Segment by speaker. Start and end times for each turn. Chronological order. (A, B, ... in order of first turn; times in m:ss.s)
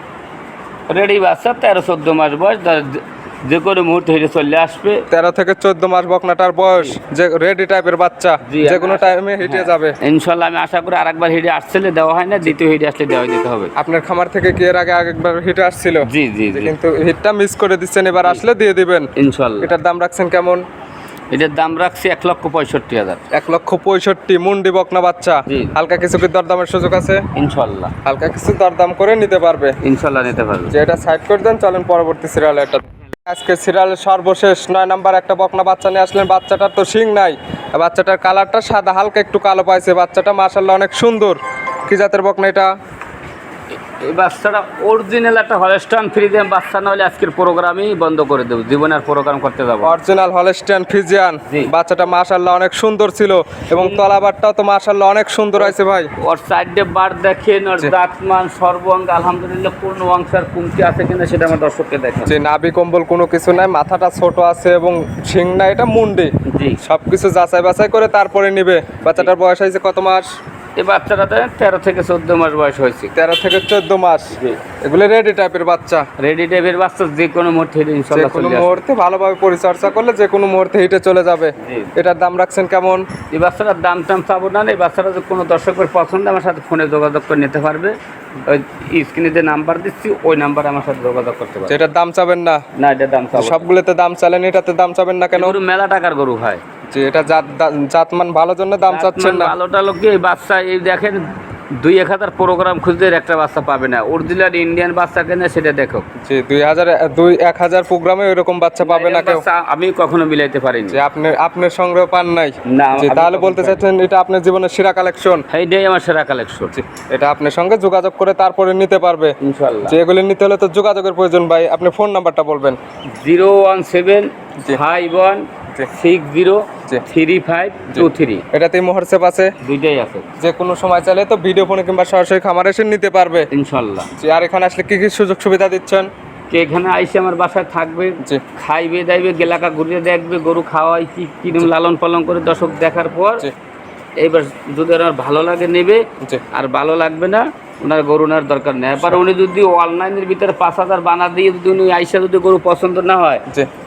0:00.9-0:05.0 A
0:05.1-0:10.0 B
0:08.4-0:13.7 A
0:13.8-0:19.1 B
0:16.1-0:16.7 A
0:19.2-0:19.7 A
0:19.6-0:20.6 B
0:21.3-0:23.2 A
0:23.3-0:27.2 B
0:25.5-0:25.8 A
0:27.4-0:27.9 A
0:28.0-0:29.8 B
0:29.8-0:30.8 A
0:30.7-0:42.7 B
0:44.0-0:49.9 A
0:49.8-0:56.1 B
0:53.8-0:54.0 A
0:55.6-1:02.4 A
1:02.3-1:10.3 B
1:06.5-1:06.8 A
1:09.0-1:09.3 A
1:10.8-1:13.1 A
1:13.2-1:16.0 B
1:14.3-1:14.6 A
1:16.2-1:18.8 A
1:18.1-1:23.1 B
1:21.6-1:21.9 A
1:23.3-1:31.8 A
1:31.7-1:32.6 B
1:32.8-1:33.6 A
1:33.4-1:35.6 B
1:35.3-1:36.6 A
1:36.9-1:39.5 B
1:38.9-1:46.1 A
1:46.2-1:49.4 B
1:48.8-1:51.0 A
1:50.9-1:55.4 B
1:52.7-1:53.8 A
1:55.5-1:56.8 A
1:56.8-1:59.4 B
1:59.4-2:00.0 A
1:59.9-2:02.8 B
2:03.2-2:08.4 A
2:07.9-2:09.5 B
2:09.6-2:10.3 A
2:10.4-2:13.5 B
2:13.5-2:14.1 A
2:14.2-2:16.1 B
2:16.5-2:23.5 A
2:24.2-2:33.4 A